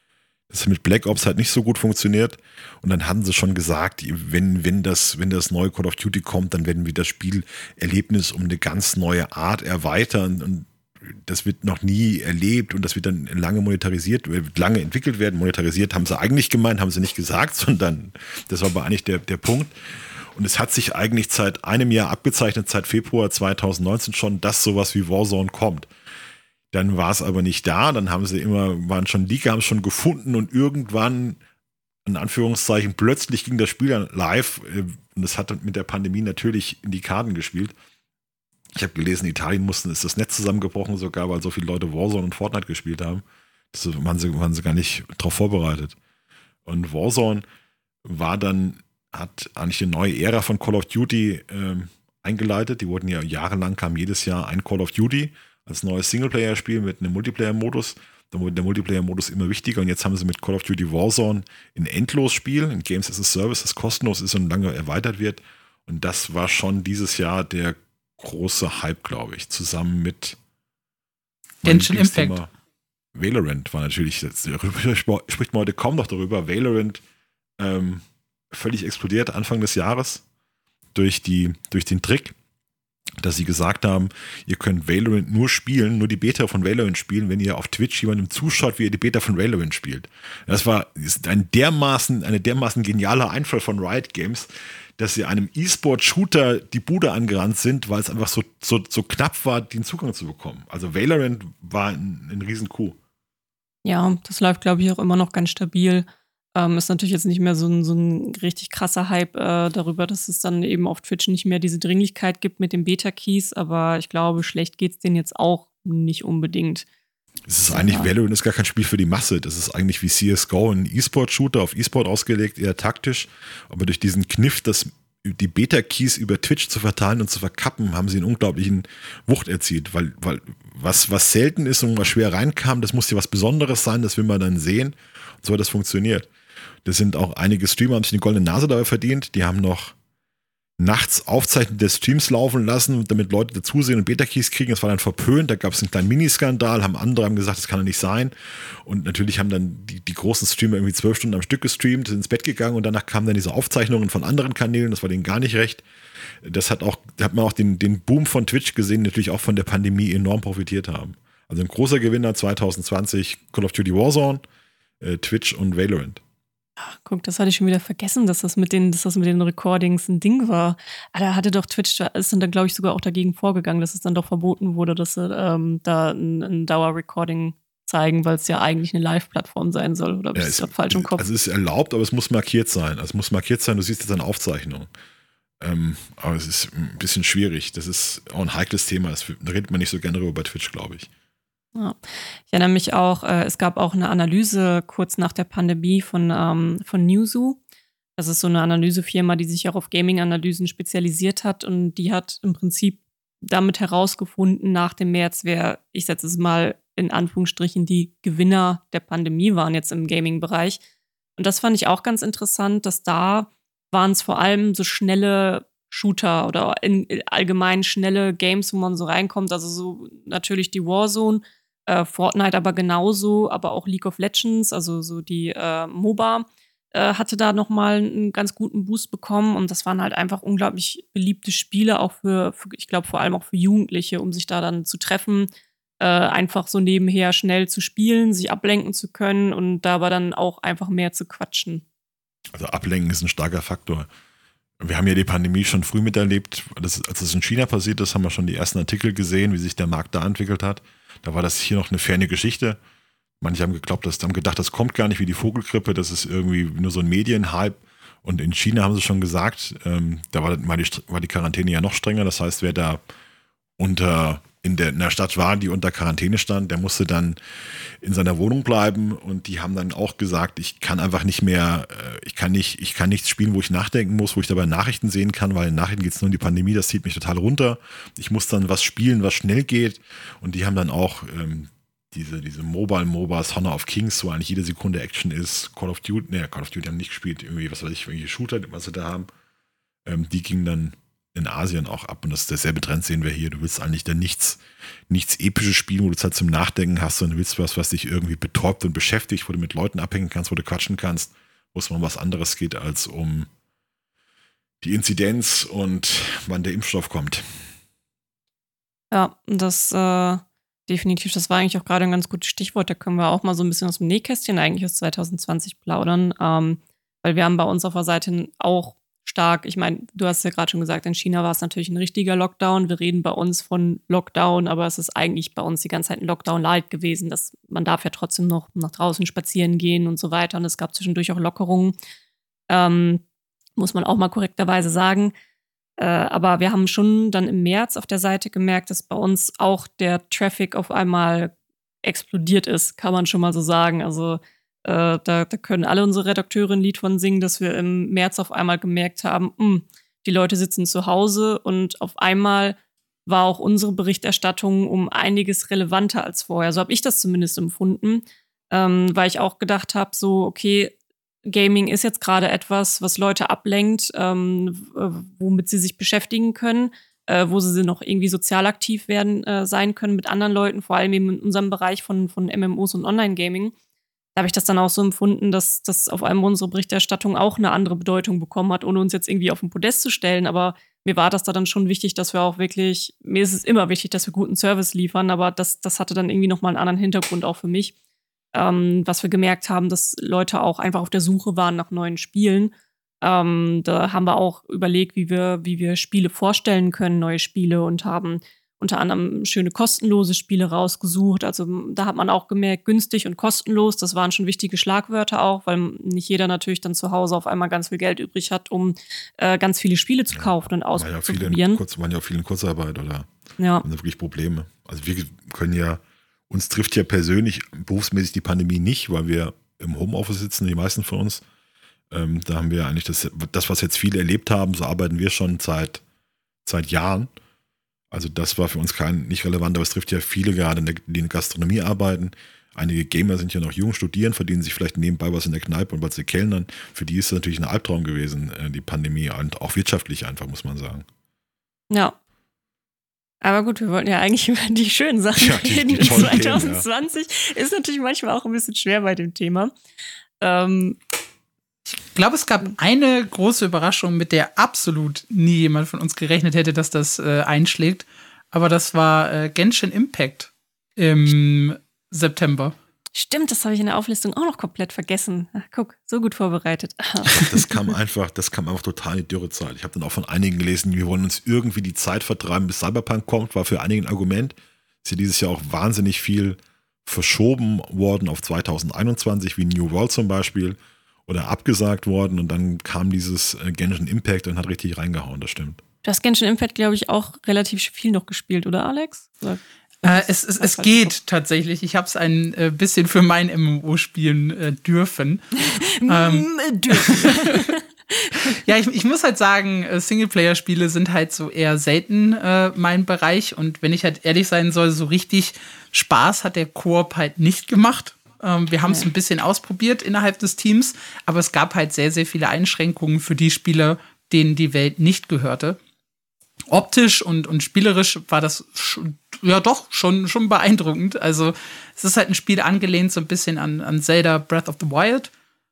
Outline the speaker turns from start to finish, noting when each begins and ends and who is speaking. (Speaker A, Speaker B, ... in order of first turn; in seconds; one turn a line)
Speaker A: 0.5-25.9
Speaker A: 26.7-31.4
Speaker A: 32.0-37.7
Speaker A: 38.7-46.0
Speaker A: 46.6-47.4
Speaker A: 48.0-70.4
Speaker A: 71.6-72.5
Speaker B: 71.6-72.4
Speaker A: 73.1-77.0
Speaker A: 77.6-80.2
Speaker A: 80.9-82.3
Speaker A: 83.2-103.0
Speaker C: 103.8-116.8
Speaker A: 117.5-136.3
Speaker C: 117.7-118.1
Speaker A: 136.8-139.9
Speaker A: 140.8-148.3
Speaker A: 148.8-155.8
Speaker A: 156.4-164.4
Speaker A: 165.0-166.2
Speaker C: 166.8-181.2
Speaker A: 180.3-184.9
Speaker A: 185.6-191.1
Speaker C: 191.8-197.6
Speaker C: 198.2-210.8
Speaker C: 211.4-235.5
Speaker C: 236.0-241.8
Speaker A: 242.5-244.1
Speaker A: 244.8-252.8
Speaker A: 253.4-263.0
Speaker A: 263.8-289.3
Speaker A: 290.0-303.5
Speaker A: 304.8-307.6
Speaker C: 309.1-331.9
Speaker C: 332.7-333.2
Speaker C: 333.8-335.3
Speaker C: 336.0-341.5
Speaker C: 342.0-360.9
Speaker C: 361.5-373.7
Speaker C: 374.4-387.9
Speaker C: 388.5-411.8
Speaker A: 410.3-413.3
Speaker C: 413.6-413.8
Speaker A: 413.8-421.4
Speaker A: 422.1-426.0
Speaker A: 426.6-427.3
Speaker A: 428.1-441.1
Speaker C: 441.9-442.1
Speaker C: 443.4-449.7
Speaker A: 445.4-446.9
Speaker C: 450.4-451.0
Speaker B: 452.0-462.7
Speaker C: 463.1-467.5
Speaker A: 467.2-485.8
Speaker C: 486.0-491.1
Speaker B: 490.0-497.7
Speaker C: 495.6-498.6
Speaker B: 498.4-515.8
Speaker B: 516.7-525.3